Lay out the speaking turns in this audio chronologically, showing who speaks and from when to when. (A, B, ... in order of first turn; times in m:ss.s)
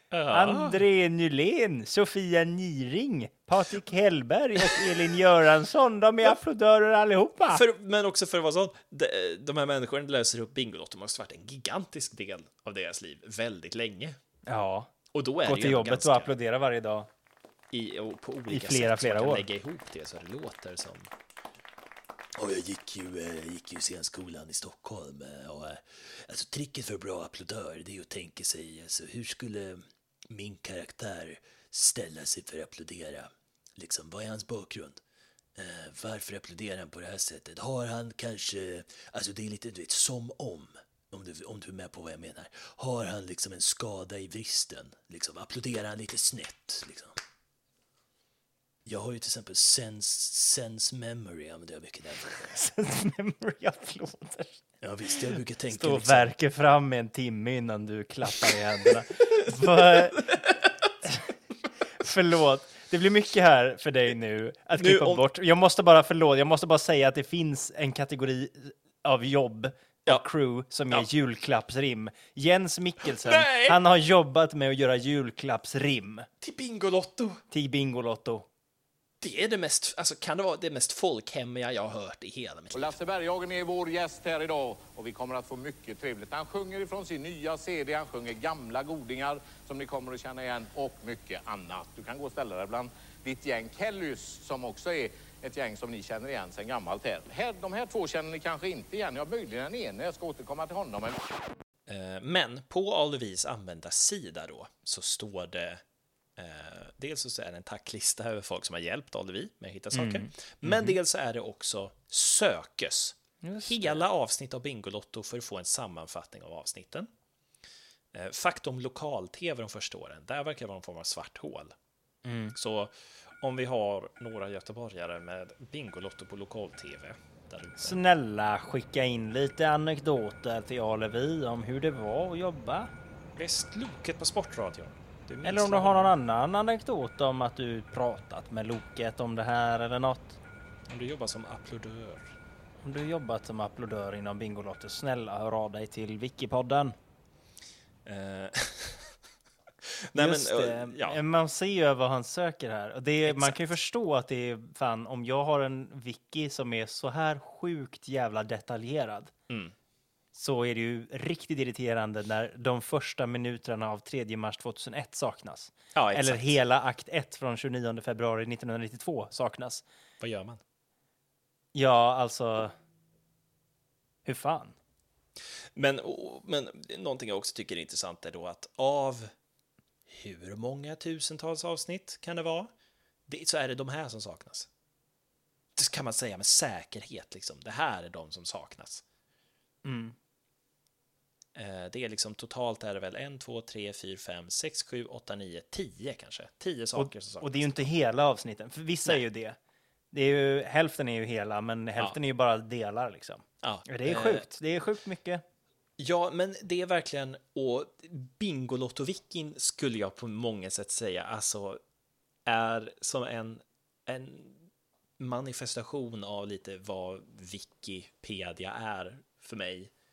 0:00.1-0:00.8 A
0:00.3-0:07.6 B
0:07.5-0:14.2 A
0:14.5-0:14.9 B
0:15.1-0:16.3 A
0:15.4-0:17.1 B
0:17.7-0:21.1 A
0:18.5-0:19.5 B
0:22.3-0:35.0 A
0:35.6-0:47.2 A
0:48.8-0:52.6 A
0:52.4-0:54.6 B
0:54.8-0:56.3 A
0:55.7-1:00.4 B
0:59.3-1:00.9 A
1:01.0-1:01.3 B
1:02.0-1:16.3 B
1:04.7-1:05.2 A
1:13.0-1:13.8 A
1:16.4-1:17.4 A
1:17.5-1:18.5 B
1:19.2-1:23.0 A
1:22.7-1:41.2 C
1:41.9-1:45.8 A
1:46.4-1:57.1 A
1:49.9-1:50.9 B
1:53.4-1:54.0 B
1:58.1-2:01.7 A
2:02.2-2:02.6 B
2:02.5-2:08.0 A
2:07.8-2:12.9 B
2:13.3-2:16.1 A
2:15.4-2:20.4 B
2:20.9-2:22.3 A
2:22.8-2:27.0 B
2:28.0-2:29.2 A
2:29.8-2:31.2 A
2:30.2-2:39.3 B
2:33.3-2:33.7 A
2:39.5-2:39.7 A
2:40.3-2:49.8 B
2:45.9-2:46.5 A
2:50.2-2:50.6 A
2:51.7-2:52.7 B
2:54.2-2:54.8 B
2:55.7-2:59.3 A
3:00.1-3:02.7 A
3:03.3-3:04.7 A
3:05.8-3:09.0 A
3:09.8-3:10.1 B
3:11.5-3:17.8 A
3:16.9-3:19.6 B
3:20.1-3:25.4 B
3:23.6-3:24.5 A
3:26.0-3:31.8 A
3:32.4-3:34.7 A
3:35.2-3:39.9 A